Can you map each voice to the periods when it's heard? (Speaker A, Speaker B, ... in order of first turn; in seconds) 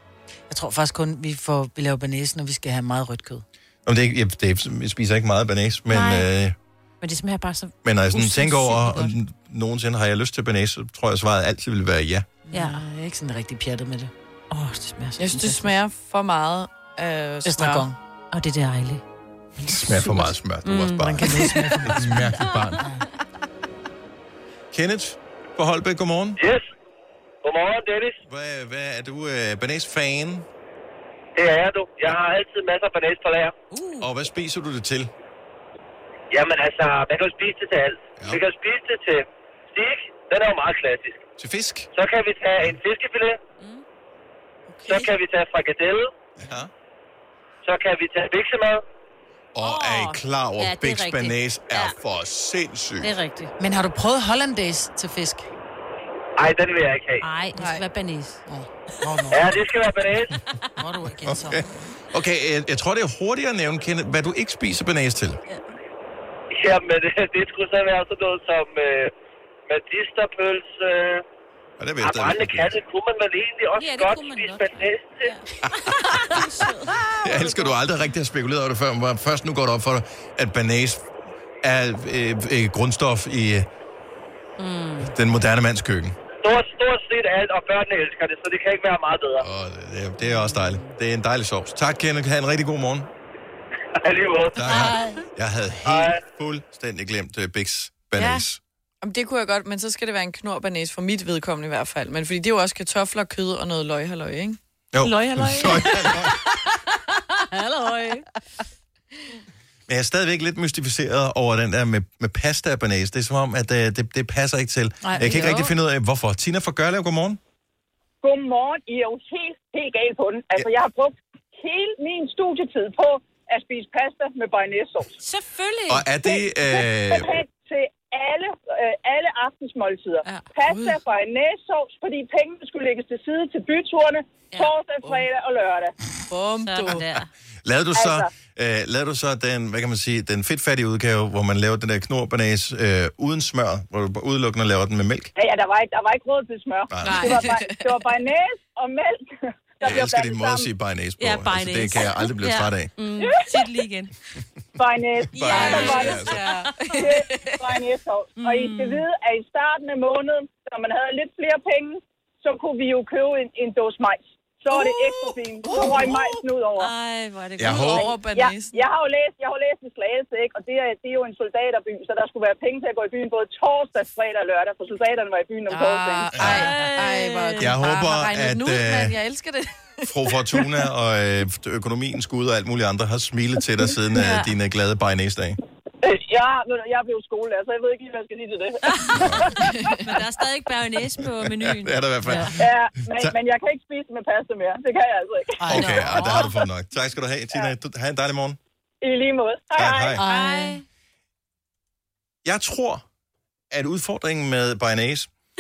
Speaker A: 0.5-3.5, 12.5-15.7, 17.4-18.0, 19.9-20.3, 21.0-22.3, 53.6-55.5, 58.5-59.5, 60.8-61.7, 107.5-108.2, 115.0-115.7, 176.6-176.9, 195.6-196.4, 200.2-200.8
Speaker B: 3.9-6.6, 7.8-12.3, 19.6-22.8, 24.7-26.4, 28.3-30.5, 34.0-35.1, 38.2-38.4, 41.4-41.9, 46.4-46.7, 49.5-53.1, 61.3-65.4, 71.8-72.8, 75.6-76.5, 77.2-81.1, 81.6-83.7, 85.0-86.2, 89.4-93.1, 94.5-98.6, 104.9-106.4, 109.9-117.4, 125.9-127.3, 137.7-145.3, 146.9-147.2, 149.8-152.9, 155.3-156.4, 167.6-168.1, 176.3-176.7, 177.6-179.2, 180.0-185.6, 189.2-189.5, 191.4-192.6, 195.7-198.6, 199.8-200.2, 202.4-203.0, 203.7-205.3
Speaker C: 5.9-6.3, 7.0-9.2, 12.5-12.8, 18.4-19.0, 20.6-21.7, 49.6-52.0, 53.0-53.5, 57.2-58.4, 73.8-77.8, 84.6-85.1, 90.3-90.7, 94.7-95.0, 98.2-98.4, 105.0-106.2, 107.4-108.2, 115.2-115.6, 125.2-126.1, 136.7-137.3, 147.0-147.6, 151.2-154.1, 155.4-157.4, 158.4-159.1, 164.7-168.1, 176.4-177.7, 184.1-184.5, 188.8-192.6, 195.7-196.5, 200.2-200.8
Speaker D: 15.2-17.9, 44.7-45.1, 57.6-57.8, 99.0-104.6, 136.3-137.1, 147.2-147.9, 155.5-157.2, 167.7-168.8, 175.7-180.1, 189.6-190.0
Speaker E: 26.4-26.6, 27.4-28.2, 31.4-33.5, 36.3-41.2, 41.9-43.4, 44.9-46.1, 47.6-48.8, 56.4-57.2, 59.3-60.4, 66.5-69.1, 69.7-71.2, 72.0-75.3, 86.4-89.4, 94.0-94.6, 95.9-96.2
Speaker F: 118.2-125.2, 126.3-135.9, 137.9-138.3, 145.4-150.7, 153.2-153.5, 154.8-156.3, 156.9-166.9, 167.7-176.5, 186.0-189.5, 192.6-195.8, 199.0-200.2